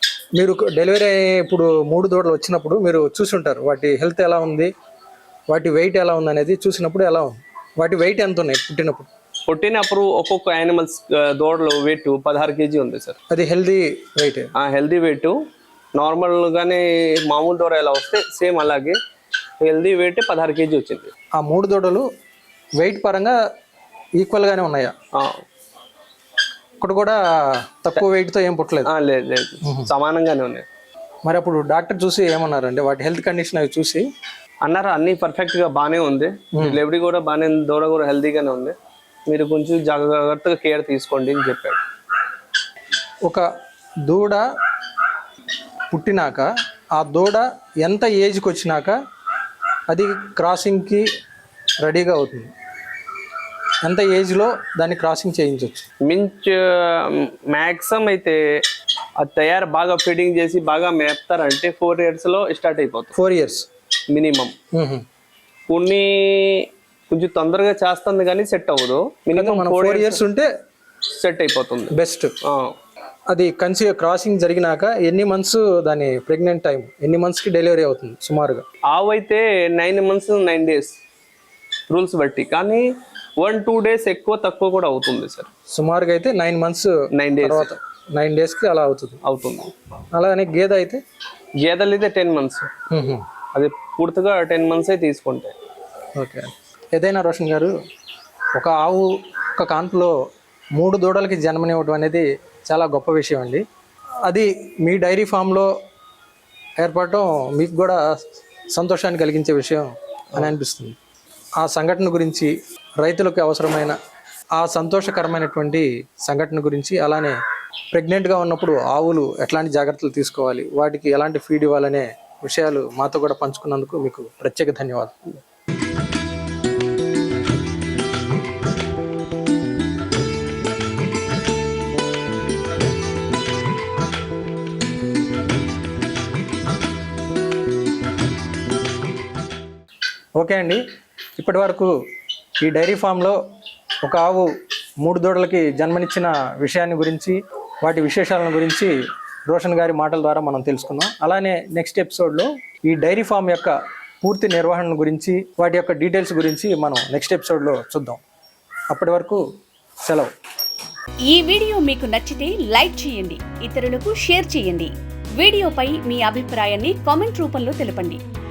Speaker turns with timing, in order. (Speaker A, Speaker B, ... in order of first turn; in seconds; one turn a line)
Speaker A: 0.4-4.7
Speaker A: 5.5-9.1
Speaker B: 9.5-13.2
Speaker A: 13.3-14.5
Speaker B: 14.6-15.3
Speaker B: 16.0-19.0
Speaker B: 19.6-21.1
Speaker A: 21.4-22.1
Speaker A: 22.8-23.4
Speaker A: 24.2-24.9
Speaker B: 25.1-25.4
Speaker A: 26.8-27.2
Speaker A: 27.7-28.9
Speaker B: 28.9-30.6
Speaker A: 31.2-34.0
Speaker B: 34.6-38.8
Speaker A: 36.5-36.8
Speaker B: 39.3-41.8
Speaker A: 44.1-44.5
Speaker A: 45.9-49.0
Speaker A: 49.9-51.1
Speaker A: 51.8-52.5
Speaker A: 53.8-55.9
Speaker B: 56.0-58.4
Speaker B: 59.2-63.1
Speaker A: 63.2-63.7
Speaker B: 64.1-64.5
Speaker A: 64.7-65.0
Speaker B: 65.7-70.2
Speaker A: 69.3-70.5
Speaker B: 71.1-72.8
Speaker A: 71.9-72.3
Speaker A: 73.3-78.6
Speaker B: 78.9-81.0
Speaker B: 81.9-82.8
Speaker B: 83.4-85.5
Speaker A: 85.7-89.2
Speaker B: 87.1-87.7
Speaker B: 89.2-89.7
Speaker A: 90.1-91.0
Speaker B: 91.6-92.7
Speaker A: 92.9-93.2
Speaker B: 93.5-95.5
Speaker A: 96.2-97.7
Speaker A: 98.5-100.1
Speaker A: 100.8-103.6
Speaker A: 104.3-105.7
Speaker A: 106.8-108.0
Speaker A: 108.7-111.0
Speaker A: 111.6-114.0
Speaker A: 114.6-117.4
Speaker A: 117.9-125.2
Speaker A: 140.4-140.8
Speaker A: 141.4-141.9
Speaker A: 142.6-143.4
Speaker A: 144.0-144.5
Speaker A: 145.0-148.9
Speaker A: 149.5-158.2
Speaker A: 158.9-159.4
Speaker A: 160.1-160.3
Speaker C: 161.3-168.2